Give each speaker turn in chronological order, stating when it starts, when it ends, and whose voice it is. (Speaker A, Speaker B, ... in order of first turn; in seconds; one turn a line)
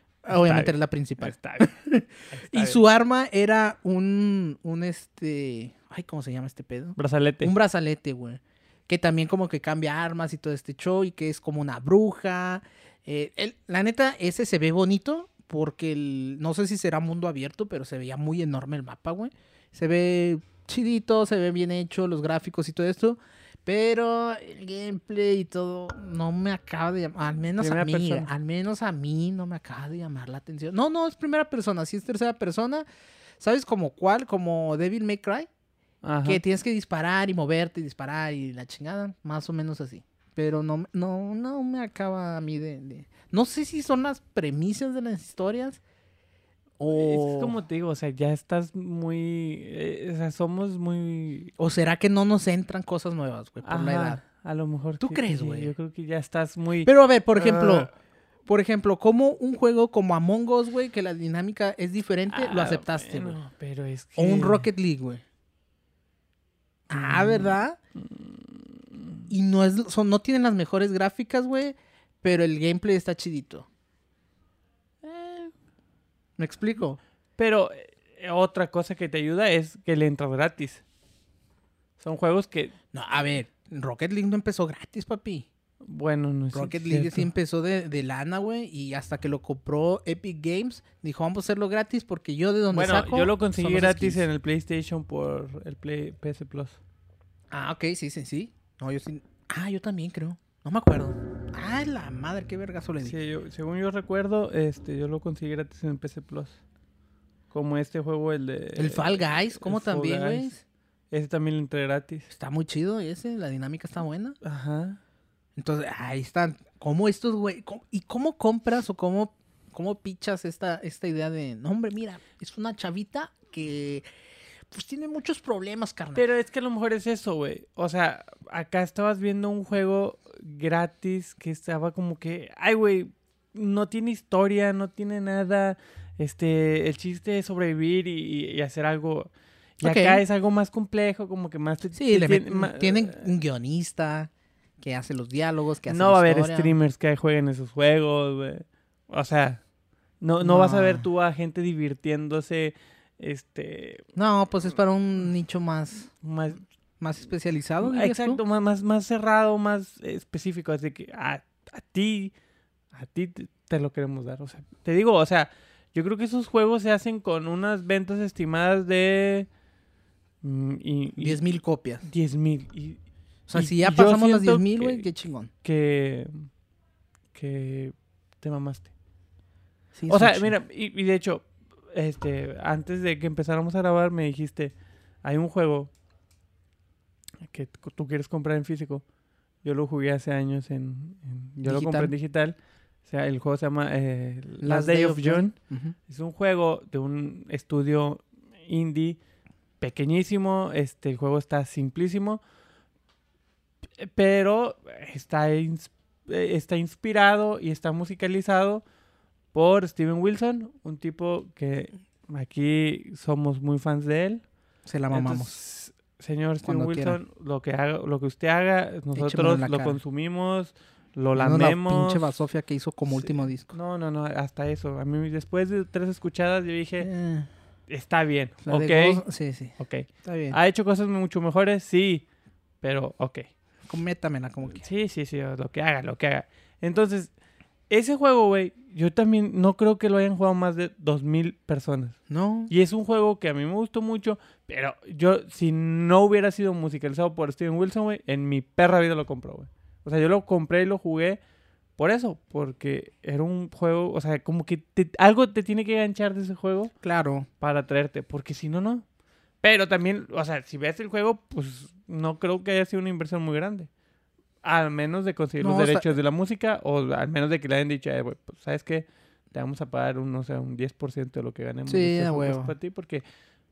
Speaker A: 0.2-32.8
Speaker B: 0.3-1.7
Speaker B: 2.3-2.8
Speaker B: 7.0-7.5
Speaker B: 27.6-28.3
Speaker A: 33.4-35.5
Speaker B: 36.0-36.4
Speaker A: 36.2-45.8
Speaker A: 46.8-47.5
Speaker B: 46.9-51.5
Speaker A: 51.6-54.2
Speaker B: 53.6-57.9
Speaker A: 55.0-55.7
Speaker A: 56.9-57.9
Speaker A: 58.5-63.4
Speaker B: 62.3-64.7
Speaker A: 64.2-65.2
Speaker A: 66.9-67.8
Speaker B: 66.9-69.3
Speaker A: 69.3-73.7
Speaker B: 75.0-75.5
Speaker A: 76.4-77.0
Speaker B: 77.4-80.8
Speaker B: 82.0-82.7
Speaker A: 82.9-85.5
Speaker B: 85.8-87.3
Speaker A: 86.5-94.2
Speaker B: 92.7-96.8
Speaker A: 97.5-103.1
Speaker B: 103.0-106.6
Speaker B: 107.5-110.5
Speaker A: 108.8-110.6
Speaker B: 111.1-112.3
Speaker A: 112.3-114.4
Speaker B: 114.4-115.0
Speaker A: 115.5-124.0
Speaker A: 124.7-126.2
Speaker B: 126.1-143.3
Speaker A: 139.8-140.2
Speaker A: 141.9-146.8
Speaker B: 145.9-149.6
Speaker B: 150.2-154.0
Speaker A: 150.4-151.1
Speaker A: 154.1-156.1
Speaker B: 156.2-156.6
Speaker A: 157.0-158.4
Speaker B: 157.8-162.3
Speaker B: 162.9-169.5
Speaker B: 170.4-171.4
Speaker A: 171.2-172.0
Speaker B: 172.0-173.0
Speaker A: 173.5-175.5
Speaker B: 173.5-175.1
Speaker B: 175.6-176.5
Speaker B: 177.3-178.9
Speaker A: 179.9-180.5
Speaker B: 180.1-185.9
Speaker B: 187.4-189.0
Speaker B: 189.6-195.5
Speaker A: 191.6-192.1
Speaker A: 194.6-195.9
Speaker B: 196.1-199.2
Speaker B: 199.8-202.4
Speaker B: 204.0-208.8
Speaker B: 209.5-214.4
Speaker A: 214.8-215.5
Speaker B: 215.1-222.3
Speaker A: 216.6-217.2
Speaker A: 219.2-220.0
Speaker A: 221.3-223.7
Speaker B: 223.1-227.1
Speaker A: 227.0-227.5
Speaker B: 227.9-229.2
Speaker A: 228.6-230.6
Speaker B: 229.8-232.2
Speaker B: 232.8-233.5
Speaker A: 233.8-234.8
Speaker B: 234.8-237.3
Speaker B: 237.9-242.2
Speaker A: 242.3-242.7
Speaker B: 242.7-251.4
Speaker B: 252.0-256.9
Speaker A: 257.0-257.5
Speaker B: 257.6-259.0
Speaker B: 259.6-263.9
Speaker B: 264.6-273.2
Speaker A: 265.6-266.1
Speaker A: 271.9-272.7